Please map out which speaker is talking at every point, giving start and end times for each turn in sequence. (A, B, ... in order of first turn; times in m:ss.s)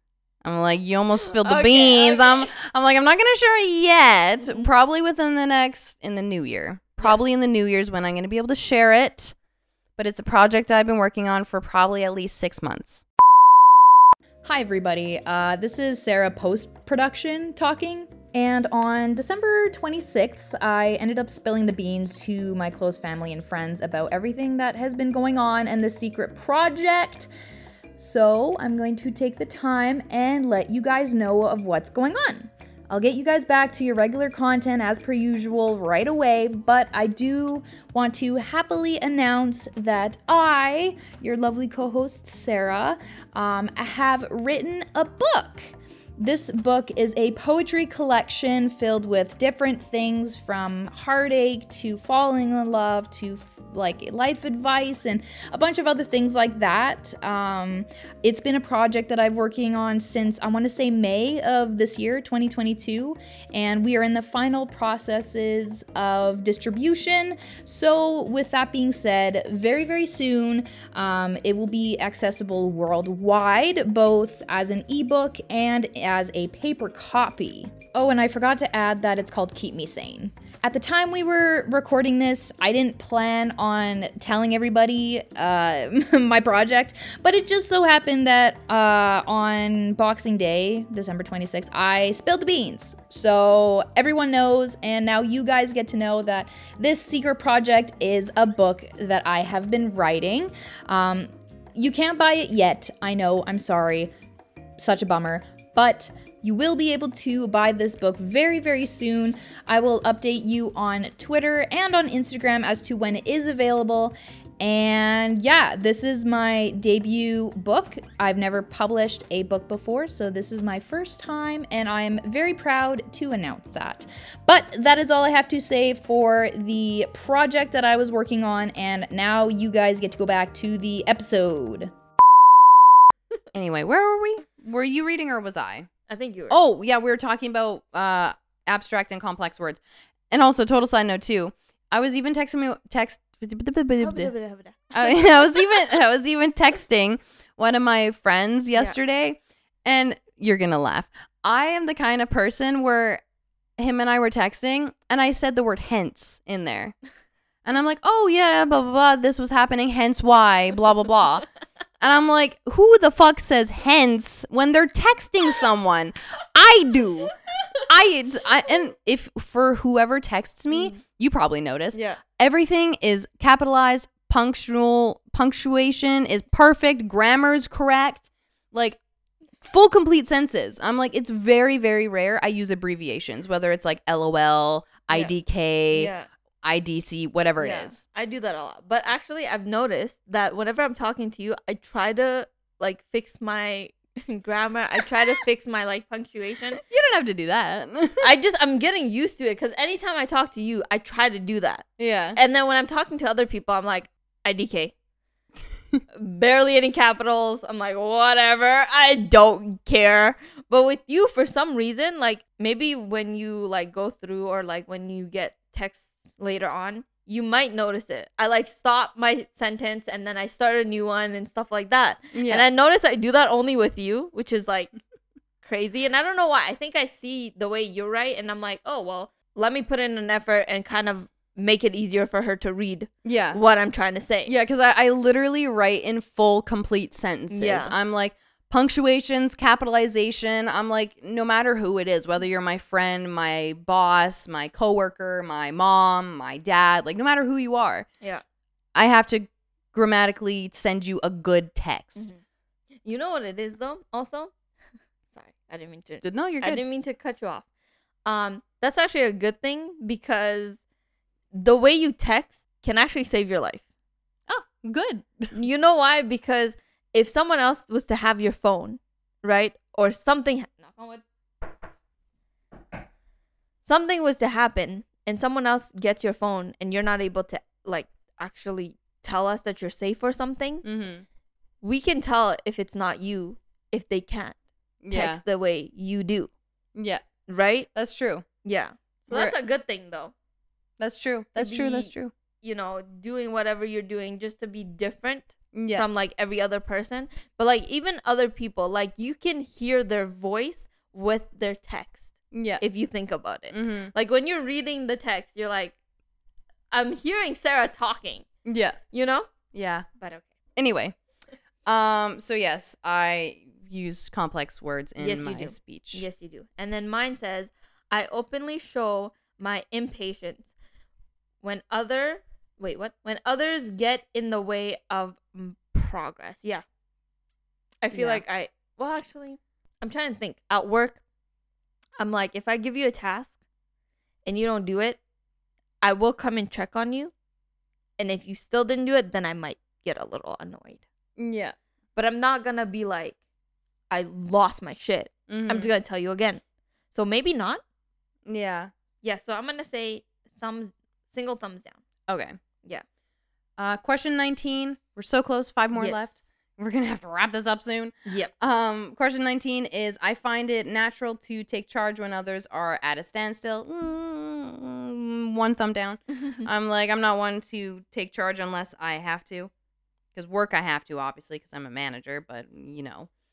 0:00.4-0:09.3 A
0:01.2-0:02.5 B
0:04.4-0:04.7 B
0:10.0-0:13.0 A
0:14.4-0:27.3 C
0:28.0-1:44.1 C
1:44.8-2:11.9 C
2:13.5-2:15.9 A
2:16.1-2:16.6 B
2:16.5-2:24.3 A
2:24.0-2:25.5 B
2:24.9-2:33.2 A
2:33.8-2:37.0 A
2:37.6-2:41.4 A
2:42.0-2:59.0 A
2:50.7-2:51.0 B
2:51.9-2:52.2 B
2:59.6-3:06.1 A
3:05.9-3:06.3 B
3:06.6-3:08.0 A
3:07.6-3:16.8 B
3:16.8-3:18.2 A
3:18.2-3:24.9 B
3:22.0-3:22.4 A
3:26.1-3:44.9 B
3:42.3-3:42.6 A
3:45.6-3:54.5 B
3:53.2-3:53.6 A
3:54.4-4:08.1 A
3:57.5-3:57.9 B
4:08.9-4:12.3 A
4:13.0-4:14.5 B
4:15.3-4:17.6 B
4:16.1-4:16.8 A
4:18.2-4:20.8 B
4:21.5-4:23.8 B
4:24.5-4:25.5 A
4:25.5-4:31.2 B
4:33.8-4:40.8 B
4:40.8-4:41.2 A
4:41.8-4:44.6 B
4:45.0-4:45.4 A
4:45.1-4:46.5 B
4:47.0-4:47.2 A
4:47.5-4:47.9 B
4:47.9-4:48.4 A
4:48.6-4:50.3 B
4:51.0-4:52.3 A
4:51.5-5:05.9 B
4:55.7-4:56.0 A
5:02.5-5:02.8 A
5:03.7-5:04.1 A
5:06.9-5:08.4 B
5:08.6-5:09.0 A
5:09.1-5:09.5 B
5:09.7-5:10.0 A
5:10.2-5:10.5 B
5:10.8-5:11.2 A
5:11.8-5:16.2 A
5:15.2-5:20.7 B
5:21.6-5:26.8 B
5:28.0-5:31.2 B
5:28.1-5:28.4 A
5:32.2-5:33.5 B
5:34.4-5:35.2 B
5:36.0-5:37.3 B
5:38.2-5:41.0 B
5:41.4-5:41.7 A
5:42.2-5:43.4 B
5:44.1-5:46.6 B
5:45.5-5:45.9 A
5:47.1-5:47.8 B
5:48.4-5:48.9 A
5:49.2-5:52.0 B
5:52.3-5:52.6 A
5:53.8-6:09.7 A
5:55.9-5:56.4 B
5:58.2-5:58.5 B
6:06.3-6:06.7 B
6:10.3-6:13.3 A